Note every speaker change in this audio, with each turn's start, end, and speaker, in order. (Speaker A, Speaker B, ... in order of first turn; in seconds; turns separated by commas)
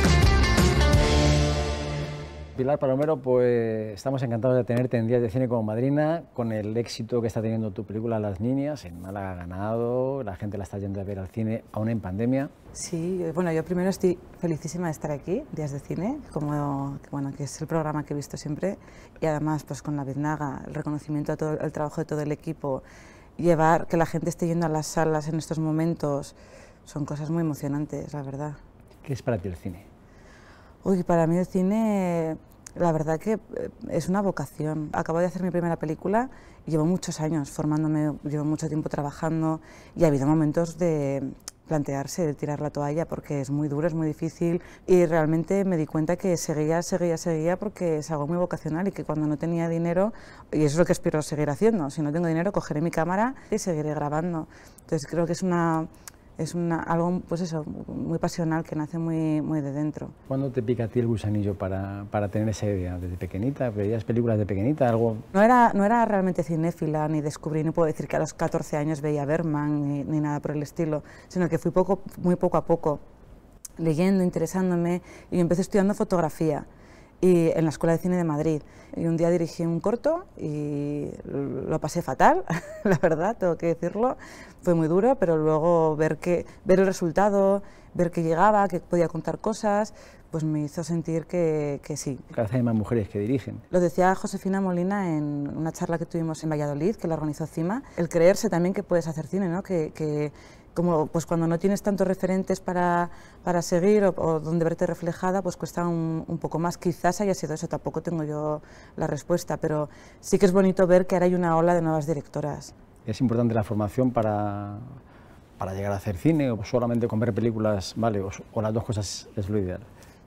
Speaker A: 2.5-12.5, Speaker B: 12.8-22.8, Speaker B: 23.4-26.4, Speaker B: 26.9-28.6, Speaker A: 29.0-29.9, Speaker B: 30.8-60.1, Speaker A: 60.3-65.3, Speaker B: 65.3-73.0, Speaker B: 73.8-76.7, Speaker B: 77.2-92.2, Speaker A: 92.3-93.6, Speaker B: 93.7-112.7, Speaker A: 113.1-115.0, Speaker A: 115.6-119.9